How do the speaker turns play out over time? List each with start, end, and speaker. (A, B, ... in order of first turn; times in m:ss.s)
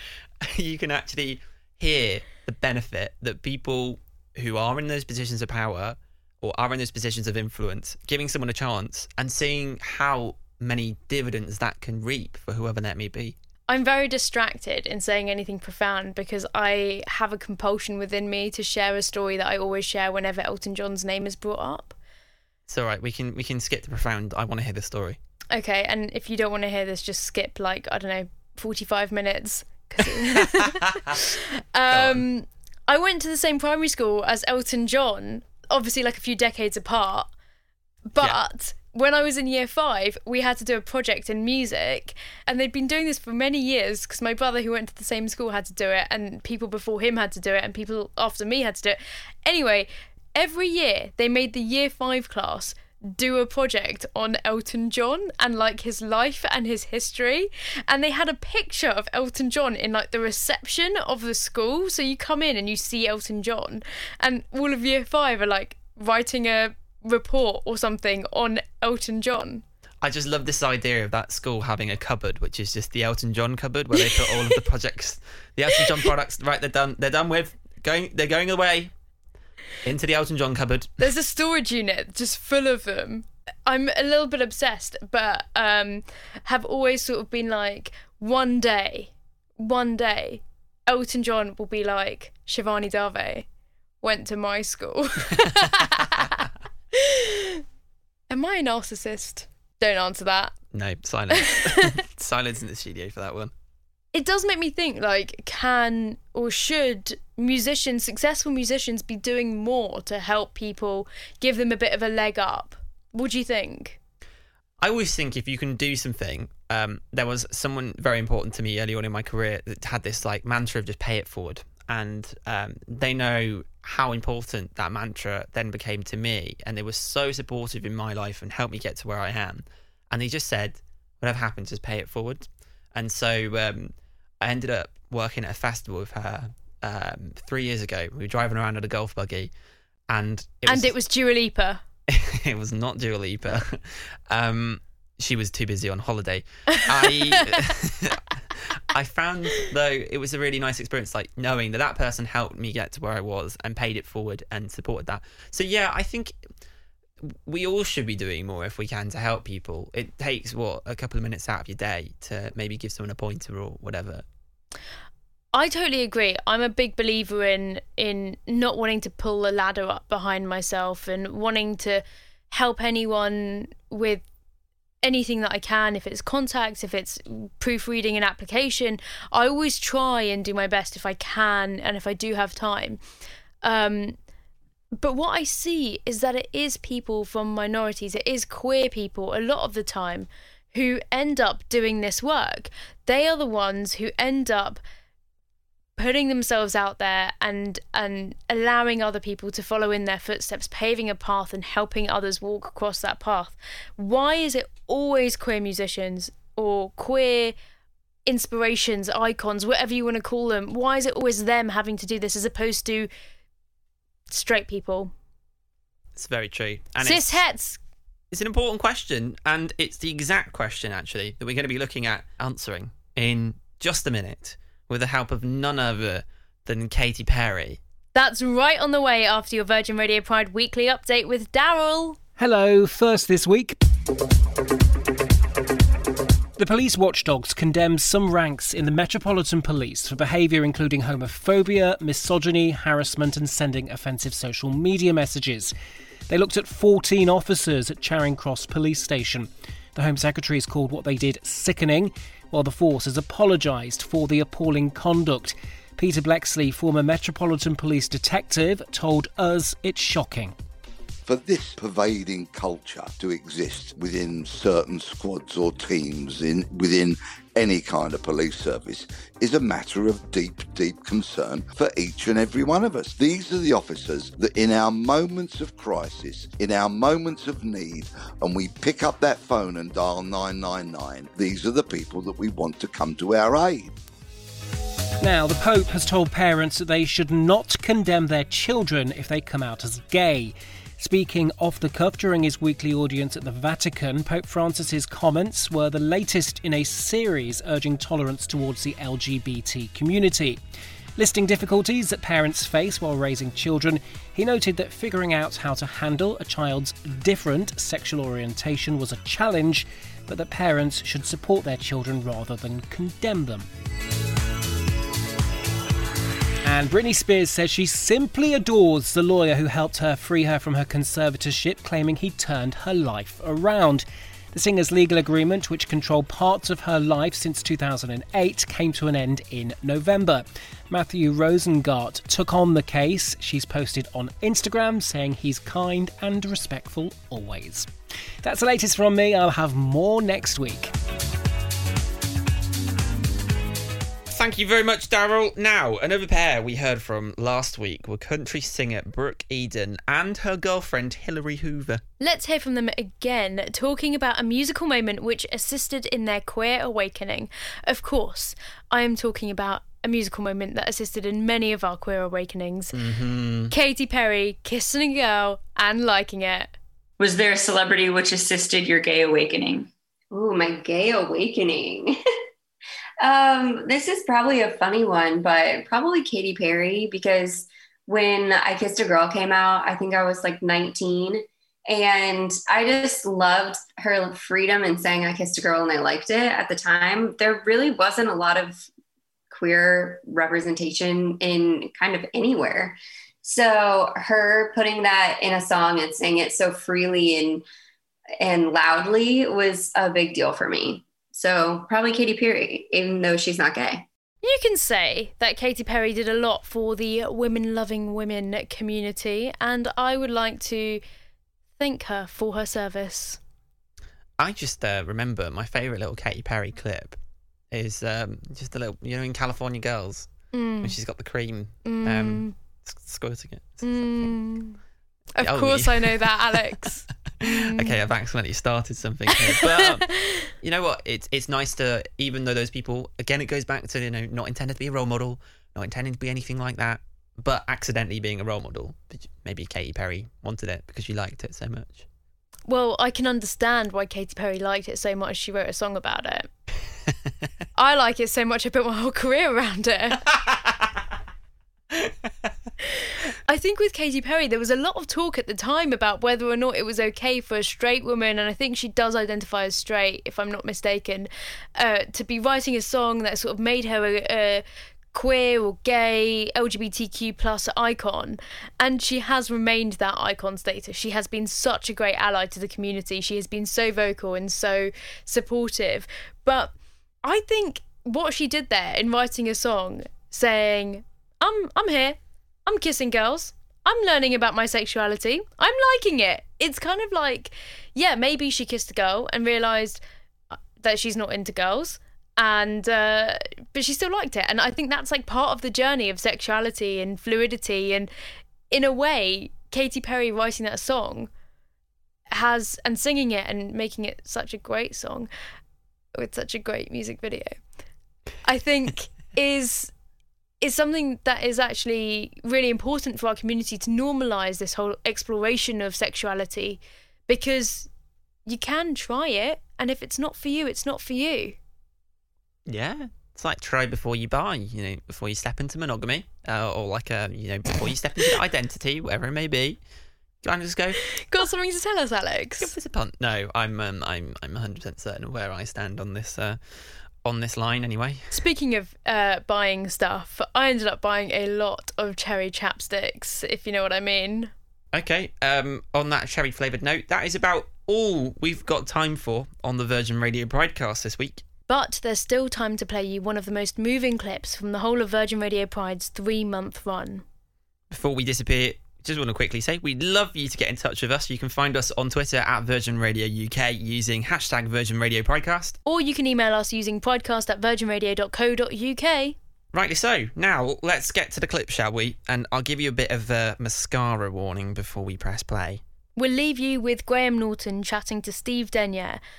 0:00.4-0:13.4 A
0:13.7-0:22.0 B
0:22.7-0:25.2 A
0:25.5-0:37.3 B
0:30.4-0:30.8 A
0:31.9-0:32.2 A
0:38.1-1:09.6 B
1:10.0-1:18.9 A
1:14.1-1:14.4 B
1:19.8-1:21.0 A
1:21.0-1:33.5 B
1:34.0-1:36.4 B
1:36.9-1:37.6 B
1:38.3-1:40.5 B
1:40.7-1:43.5 A
1:41.5-1:41.9 B
1:44.1-1:54.0 B
1:54.8-2:19.5 A
2:20.1-2:20.9 A
2:20.7-2:21.8 B
2:22.1-2:36.4 A
2:26.8-2:27.2 B
2:37.2-2:44.2 A
2:45.5-2:54.2 B
2:55.0-3:03.0 B
3:03.6-3:04.2 B
3:05.0-3:14.8 B
3:16.0-3:27.6 B
3:28.3-3:33.1 B
3:34.3-3:35.1 B
3:36.2-3:37.4 A
3:37.0-3:37.8 B
3:38.3-3:47.8 A
3:48.1-3:52.2 B
3:52.4-3:53.8 C
3:56.6-4:05.7 C
4:06.3-4:20.6 C
4:21.3-4:43.9 D
4:45.2-5:00.6 C
5:01.2-5:13.7 C
5:16.6-5:37.9 C
5:38.4-5:40.9 C
5:44.3-5:52.0 A
5:52.2-6:03.0 B
6:02.9-6:03.7 A
6:03.7-6:06.8 B
6:07.2-6:09.9 E
6:10.3-6:12.2 F
6:13.2-6:28.9 F
6:29.5-6:37.6 F
6:38.4-6:44.1 F
6:44.4-6:51.0 B
6:51.8-6:53.4 B
6:54.4-6:57.2 A
6:57.7-7:00.3 A
7:00.5-7:01.0 B
7:00.8-7:04.4 A
7:01.8-7:02.5 B
7:03.8-7:04.8 B
7:05.4-7:07.9 B
7:05.4-7:06.6 A
7:07.4-7:22.1 A
7:22.7-7:26.5 B
7:27.8-7:30.2 B
7:30.3-7:30.8 A
7:33.5-8:10.0 B
8:10.5-8:18.1 B
8:18.7-8:21.3 B
8:22.3-8:25.3 B
8:26.2-8:27.6 B
8:28.4-8:29.9 B
8:30.6-8:37.9 B
8:38.5-8:41.6 B
8:42.7-8:49.8 A
8:50.4-8:51.1 A
8:51.2-8:52.7 B
8:52.6-8:56.6 A
8:57.2-8:58.3 A
8:58.3-9:04.5 B
9:04.9-9:11.4 A
9:11.7-9:17.2 B
9:17.9-9:25.8 A
9:25.9-9:29.4 B
9:29.7-9:35.8 A
9:36.2-9:39.2 B